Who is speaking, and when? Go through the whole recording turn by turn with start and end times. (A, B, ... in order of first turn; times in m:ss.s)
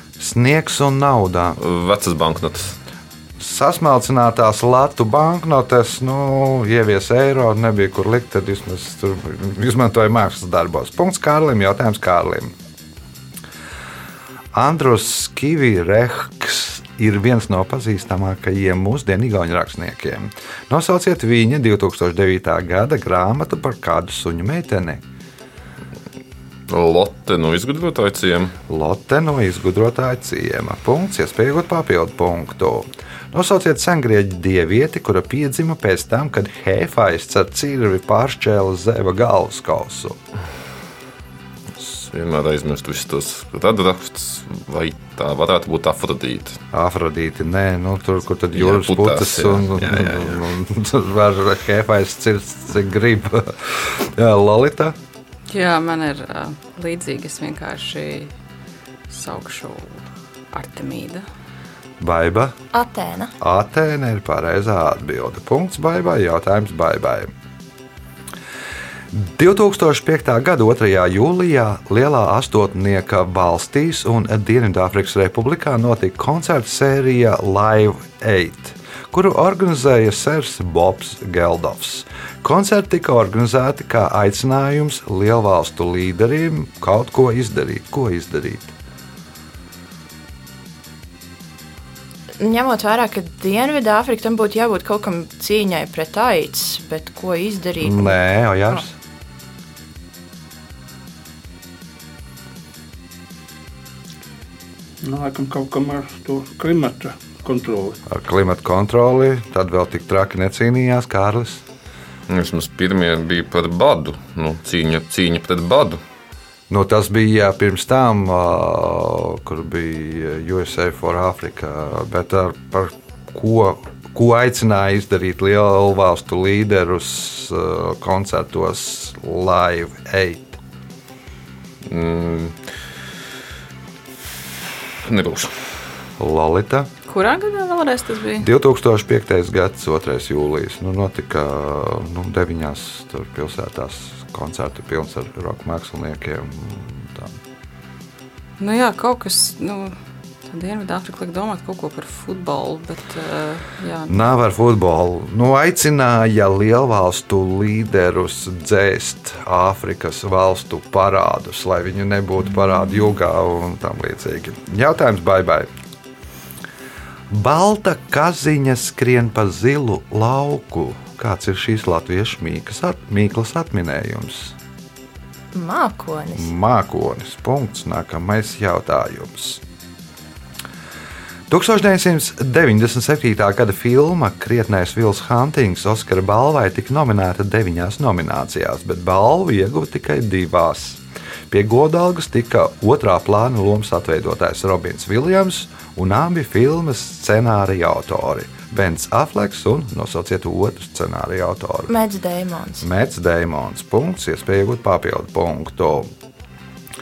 0:00.2-0:01.6 A
0:01.6-0:02.8 B
0:03.4-0:12.5 A
0:14.5-0:25.0 A
0:26.7-0:28.6 B
0:28.7-0:40.2 A
0:41.8-0:46.6 B
0:46.7-0:55.0 A
0:48.6-0:50.4 B
0:55.5-0:58.3 C
0:59.1-1:00.0 C
1:00.5-1:01.2 C
1:02.0-1:02.6 A
1:02.7-1:03.3 D
1:03.4-1:07.3 A
1:09.1-1:28.7 A
1:32.4-1:38.2 D
1:37.8-1:38.9 A
1:45.0-1:48.0 E
1:48.1-1:51.6 A
1:52.3-1:56.0 B
1:56.7-2:10.6 A
2:11.9-2:12.6 B
2:15.0-2:15.5 B
2:16.2-2:16.9 A
2:17.1-2:18.5 C
2:18.4-2:27.4 A
2:28.6-2:34.2 C
2:34.1-2:45.7 A
2:47.3-2:54.6 A
2:55.5-2:56.5 D
2:56.4-2:59.6 A
3:01.5-3:21.9 A
3:21.9-3:22.9 D
3:22.8-3:26.1 A